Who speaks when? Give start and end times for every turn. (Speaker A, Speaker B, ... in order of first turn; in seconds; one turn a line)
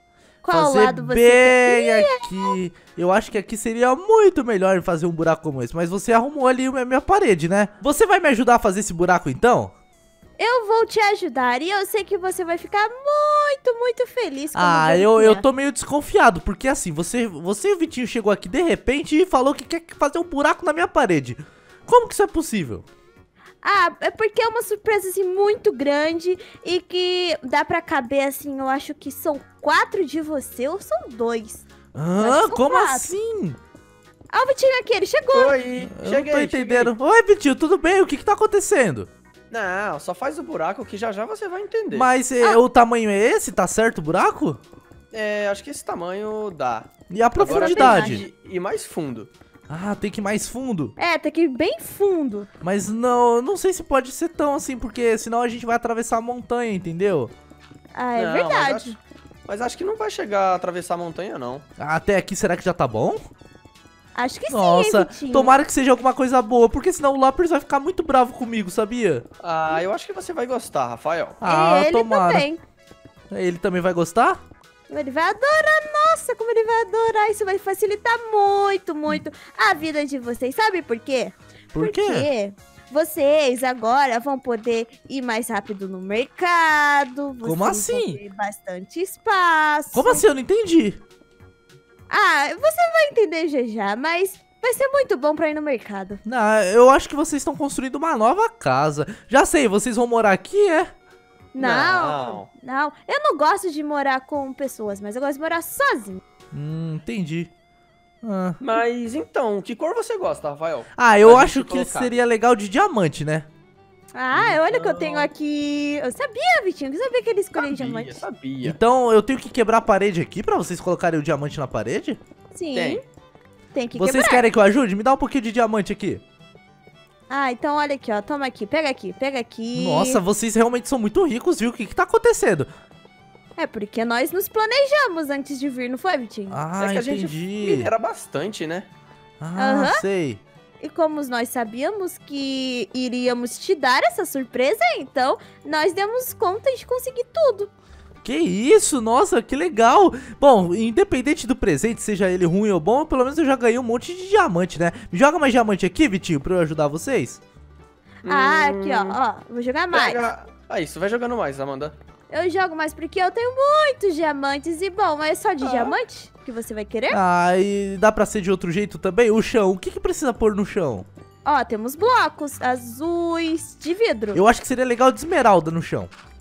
Speaker A: 0.4-2.5
Speaker B: 0.5-9.7
Speaker A: 10.4-15.5
Speaker B: 14.6-22.9
Speaker A: 23.6-31.6
Speaker B: 31.9-33.6
Speaker A: 32.2-33.1
Speaker A: 34.3-35.6
Speaker C: 35.3-36.9
Speaker B: 35.8-39.1
Speaker C: 39.5-42.1
Speaker B: 41.9-44.6
Speaker C: 45.1-49.3
Speaker B: 47.1-48.2
Speaker A: 47.4-48.2
Speaker B: 49.7-51.0
Speaker A: 51.0-52.5
Speaker B: 52.6-57.3
Speaker A: 57.9-59.0
Speaker C: 58.1-59.0
Speaker C: 59.5-61.6
Speaker B: 61.8-63.2
Speaker A: 64.2-65.6
Speaker B: 64.5-69.2
Speaker C: 69.4-71.4
Speaker B: 71.4-72.5
Speaker A: 71.4-72.6
Speaker B: 73.3-74.4
Speaker A: 74.9-90.2
Speaker B: 81.7-82.3
Speaker B: 87.4-88.2
Speaker B: 89.9-91.0
Speaker A: 92.1-96.2
Speaker B: 96.2-100.9
Speaker A: 101.5-106.2
Speaker C: 101.6-102.5
Speaker B: 106.5-107.5
Speaker B: 108.2-108.6
Speaker C: 108.6-112.1
Speaker B: 111.0-113.5
Speaker A: 114.1-118.2
Speaker C: 114.3-115.3
Speaker C: 117.6-118.8
Speaker B: 118.6-122.2
Speaker A: 122.5-123.0
Speaker C: 122.7-123.0
Speaker A: 123.7-124.5
Speaker B: 124.0-126.2
Speaker A: 127.3-130.2
Speaker B: 129.7-132.7
Speaker A: 133.6-136.6
Speaker B: 136.5-137.9
Speaker C: 136.8-138.9
Speaker B: 139.4-140.4
Speaker A: 139.6-140.0
Speaker A: 140.8-147.7
Speaker B: 148.2-157.4
Speaker C: 158.2-159.2
Speaker A: 158.3-160.2
Speaker C: 159.9-161.9
Speaker A: 162.3-167.2
Speaker C: 165.6-165.9
Speaker B: 167.1-171.1
Speaker A: 171.4-174.4
Speaker B: 174.3-176.1